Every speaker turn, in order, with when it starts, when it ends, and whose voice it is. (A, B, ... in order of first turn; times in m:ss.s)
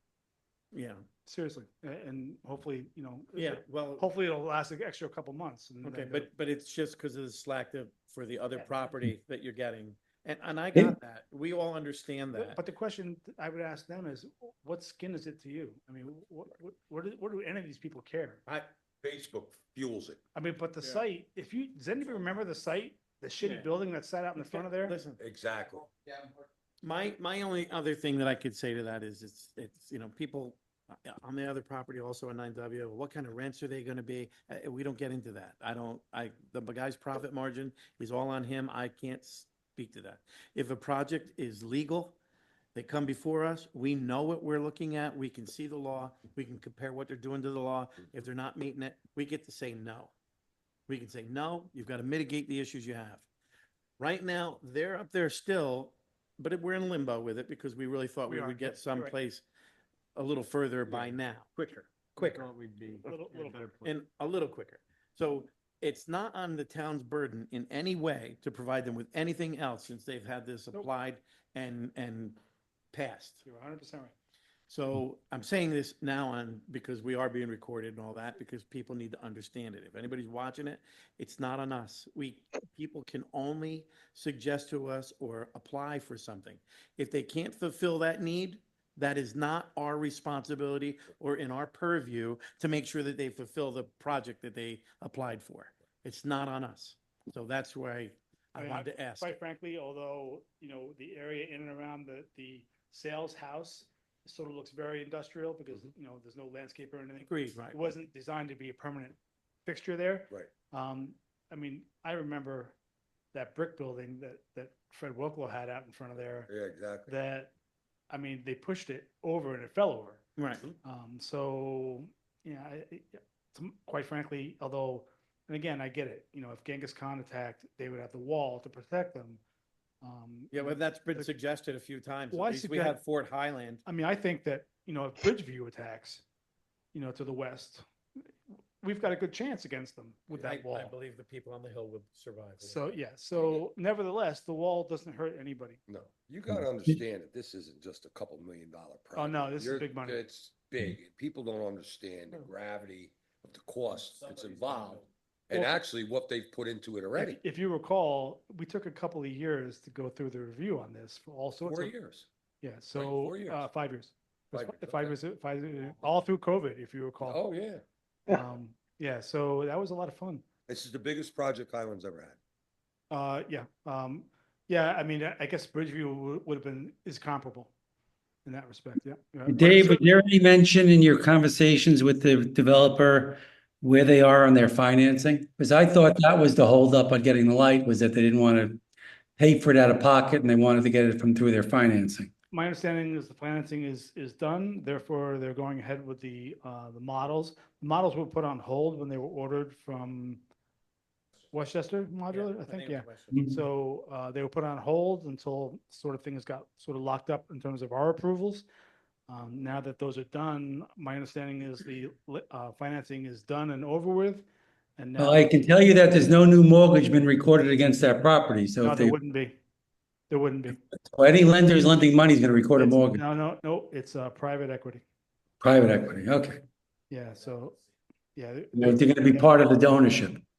0:00.7-0:01.0 A
0:01.2-0:06.3 B
0:03.3-0:04.1 A
0:05.8-0:12.6 A
0:12.3-0:18.4 B
0:19.0-0:20.2 C
0:20.3-0:25.0 B
0:24.4-0:25.2 A
0:25.2-0:25.9 C
0:26.8-0:42.2 A
0:42.7-0:50.1 A
0:50.9-0:53.2 A
0:54.0-0:59.4 A
0:58.3-0:59.1 B
1:00.1-1:01.6 A
1:01.6-1:03.9 D
1:02.2-1:02.5 A
1:03.0-1:03.6 B
1:03.8-1:12.4 A
1:12.9-1:13.4 A
1:13.4-1:14.1 B
1:14.7-1:39.3 A
1:38.6-1:52.7 B
1:47.2-1:47.8 A
1:53.3-1:56.5 B
1:56.5-1:57.1 C
1:57.0-1:57.5 B
1:58.1-2:00.2 B
2:00.4-2:00.7 A
2:00.8-2:09.4 B
2:10.0-2:11.3 B
2:10.5-2:13.8 A
2:12.3-2:13.0 B
2:13.8-2:16.2 B
2:16.9-2:17.8 B
2:18.8-2:20.9 B
2:20.3-2:23.6 A
2:22.6-2:25.8 B
2:25.9-2:37.4 C
2:26.5-2:27.0 E
2:29.1-2:30.2 B
2:37.1-2:41.9 B
2:41.6-2:42.2 C
2:42.6-2:47.4 B
2:42.9-2:43.7 C
2:44.5-2:45.2 C
2:47.2-2:47.8 C
2:48.3-2:50.4 B
2:50.7-2:52.4 C
2:53.1-2:57.7 B
2:58.4-3:00.1 B
2:59.5-3:08.8 E
3:09.4-3:12.3 E
3:12.5-3:20.4 B
3:21.5-3:28.6 B
3:22.3-3:23.4 A
3:23.3-3:23.6 E
3:29.3-3:34.5 B
3:35.0-3:35.6 B
3:35.2-3:39.2 E
3:38.8-3:39.6 B
3:40.3-3:40.8 B
3:41.0-3:43.2 E
3:42.7-3:45.0 B
3:45.6-3:46.6 E
3:47.1-3:47.8 B
3:48.4-3:49.6 B
3:48.8-3:50.4 E